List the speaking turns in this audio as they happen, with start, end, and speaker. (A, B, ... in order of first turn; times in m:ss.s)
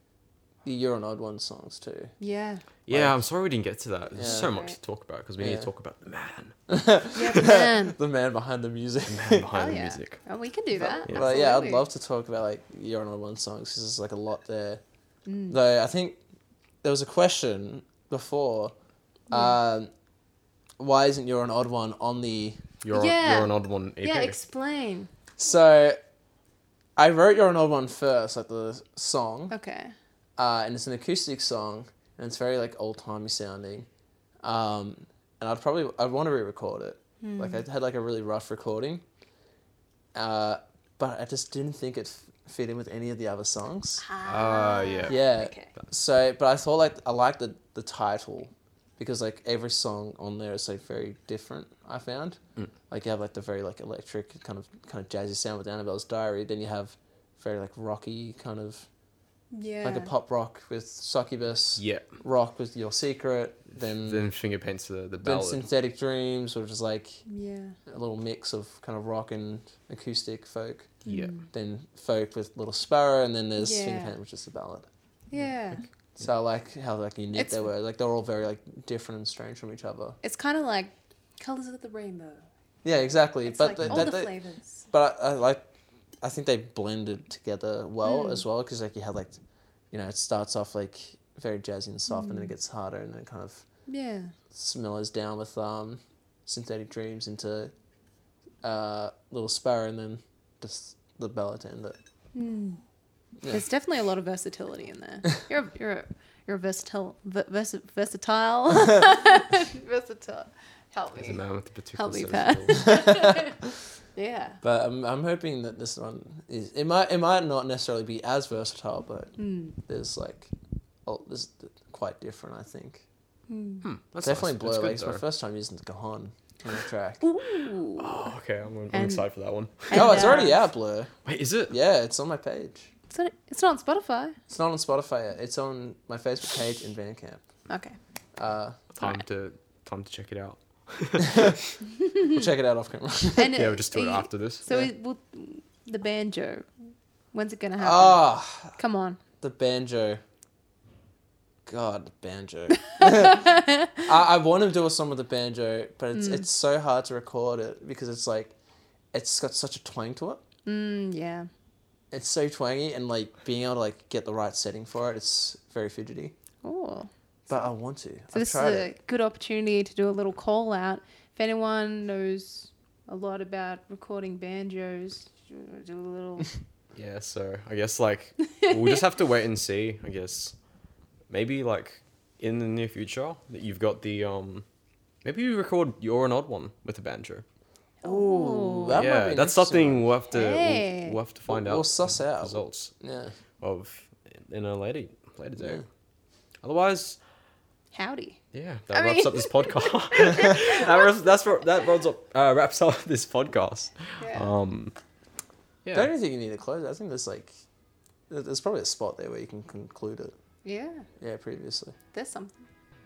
0:00.6-0:02.1 A
0:02.2-0:02.6 B
0:02.9-0:06.6 C
0:02.9-0:03.2 A
0:04.1-0:04.5 A
0:04.2-0:04.8 B
0:05.4-0:05.7 A
0:06.7-0:09.5 A
0:07.2-0:08.0 B
0:09.1-0:10.2 C
0:09.5-0:11.8 B
0:10.7-0:14.8 A
0:15.3-0:15.6 B
0:15.5-0:16.2 A
0:16.8-0:18.7 A
0:19.3-0:19.6 B
0:19.3-0:19.9 A
0:20.8-0:22.6 A
0:22.8-0:24.4 C
0:22.9-0:25.1 B
0:25.4-0:26.0 A
0:27.0-0:29.5 A
0:29.5-0:29.9 B
0:30.4-0:33.9 A
0:34.4-0:39.0 A
0:37.2-0:37.6 B
0:40.1-0:44.1 A
0:44.0-0:45.7 B
0:44.2-0:45.9 C
0:45.1-0:58.9 A
0:59.5-1:00.1 B
0:59.8-1:04.2 A
1:01.8-1:02.1 C
1:04.0-1:05.7 C
1:05.2-1:07.2 A
1:07.3-1:07.8 B
1:07.9-1:10.9 A
1:11.0-1:11.3 C
1:11.1-1:11.5 B
1:11.5-1:14.9 A
1:13.6-1:14.2 B
1:15.3-1:15.8 B
1:16.2-1:20.2 A
1:17.3-1:17.7 B
1:20.2-1:22.4 B
1:22.8-1:24.4 A
1:23.4-1:24.9 B
1:24.9-1:25.7 A
1:26.2-1:29.4 A
1:28.0-1:28.4 B
1:29.9-1:33.6 A
1:32.1-1:32.5 B
1:33.9-1:34.3 B
1:34.5-1:37.7 A
1:38.6-1:42.0 A
1:42.4-1:42.8 B
1:43.5-1:51.4 B
1:51.2-1:52.9 C
1:52.0-1:53.6 B
1:52.8-1:53.5 A
1:54.2-1:54.6 B
1:54.6-2:00.5 A
1:59.4-1:59.8 B
2:01.1-2:03.0 A
2:03.5-2:03.8 B
2:03.8-2:05.2 C
2:04.2-2:07.2 A
2:07.2-2:08.3 B
2:08.0-2:10.5 C
2:08.9-2:10.6 B
2:09.9-2:11.1 A
2:11.2-2:11.8 C
2:11.7-2:12.9 A
2:13.1-2:14.4 B
2:14.5-2:17.4 A
2:17.7-2:18.0 B
2:18.4-2:18.8 A
2:19.0-2:21.6 C
2:19.0-2:19.2 B
2:21.3-2:21.6 A
2:22.2-2:23.6 A
2:23.4-2:26.7 B
2:23.5-2:24.6 C
2:27.3-2:29.2 B
2:27.8-2:28.8 A
2:29.4-2:30.2 A
2:31.7-2:38.5 A
2:33.0-2:34.0 B
2:36.2-2:36.4 B
2:39.1-2:40.4 A
2:40.7-2:41.5 B
2:42.1-2:46.3 A
2:46.6-2:47.6 B
2:47.5-2:48.9 A
2:48.3-2:56.5 B
2:57.0-3:00.6 C
2:58.6-2:59.0 B
3:01.3-3:04.6 C
3:05.2-3:07.4 C
3:08.0-3:09.0 B
3:08.0-3:10.1 A
3:08.9-3:12.9 C
3:10.3-3:11.2 B
3:11.5-3:13.4 A
3:13.6-3:15.8 C
3:15.6-3:15.8 A
3:16.6-3:17.2 C
3:17.9-3:21.1 B
3:18.5-3:25.0 C
3:24.2-3:24.5 B
3:25.9-3:27.6 A
3:28.3-3:30.4 A
3:30.6-3:31.1 B
3:31.2-3:32.0 A
3:32.1-3:32.6 B